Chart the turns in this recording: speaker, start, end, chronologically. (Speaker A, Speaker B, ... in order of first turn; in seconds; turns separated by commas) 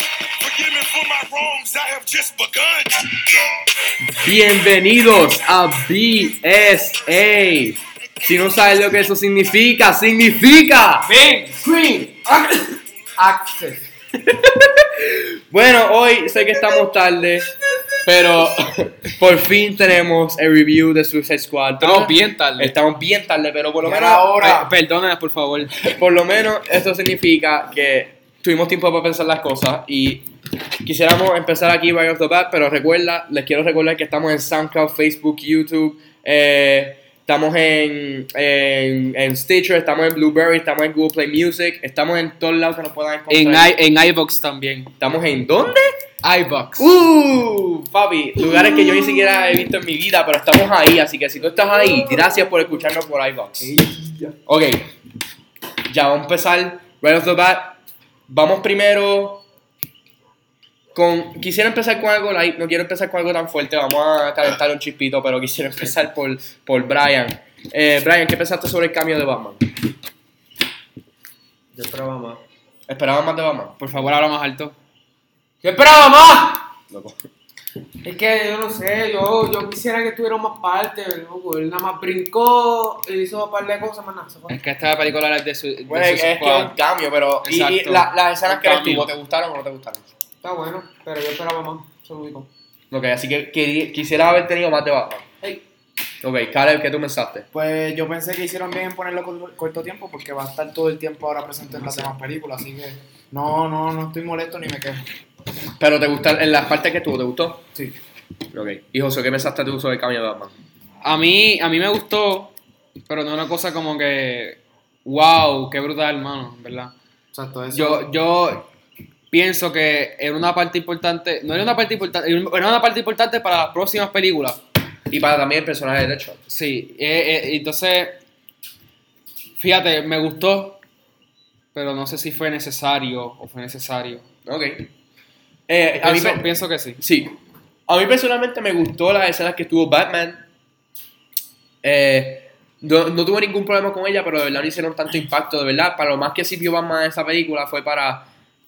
Speaker A: 0.4-2.9, Speaker B: 4.2-11.1, Speaker C: 11.0-11.6, Speaker D: 11.6-12.3, Speaker D: 13.2-13.8, Speaker B: 14.2-17.5, Speaker B: 18.0-24.3, Speaker C: 21.8-22.7, Speaker D: 23.8-24.7, Speaker C: 24.4-25.7, Speaker B: 25.8-30.3, Speaker B: 30.8-43.8, Speaker C: 43.3-44.9, Speaker B: 45.0-45.9, Speaker C: 46.2-46.9, Speaker B: 46.8-53.7, Speaker D: 53.8-54.3, Speaker B: 54.5-54.8, Speaker B: 55.9-59.4, Speaker B: 60.9-69.6, Speaker E: 71.7-72.4, Speaker B: 72.9-73.8, Speaker C: 73.8-74.8, Speaker E: 75.6-76.6, Speaker B: 76.9-77.2, Speaker E: 78.0-84.5, Speaker C: 84.5-86.7, Speaker B: 85.8-90.1, Speaker C: 87.4-89.1, Speaker E: 90.4-92.5, Speaker B: 92.9-95.3, Speaker B: 96.2-97.5, Speaker D: 97.5-105.1, Speaker B: 105.8-107.6, Speaker B: 108.5-110.5, Speaker C: 111.0-112.5, Speaker C: 113.1-116.9, Speaker D: 117.3-118.1, Speaker C: 117.7-118.7, Speaker C: 119.3-124.6, Speaker B: 125.1-126.4, Speaker C: 126.5-128.2, Speaker C: 129.6-130.8, Speaker C: 131.7-134.2, Speaker B: 134.4-134.9, Speaker B: 135.7-140.4, Speaker C: 136.0-137.0, Speaker B: 141.8-148.3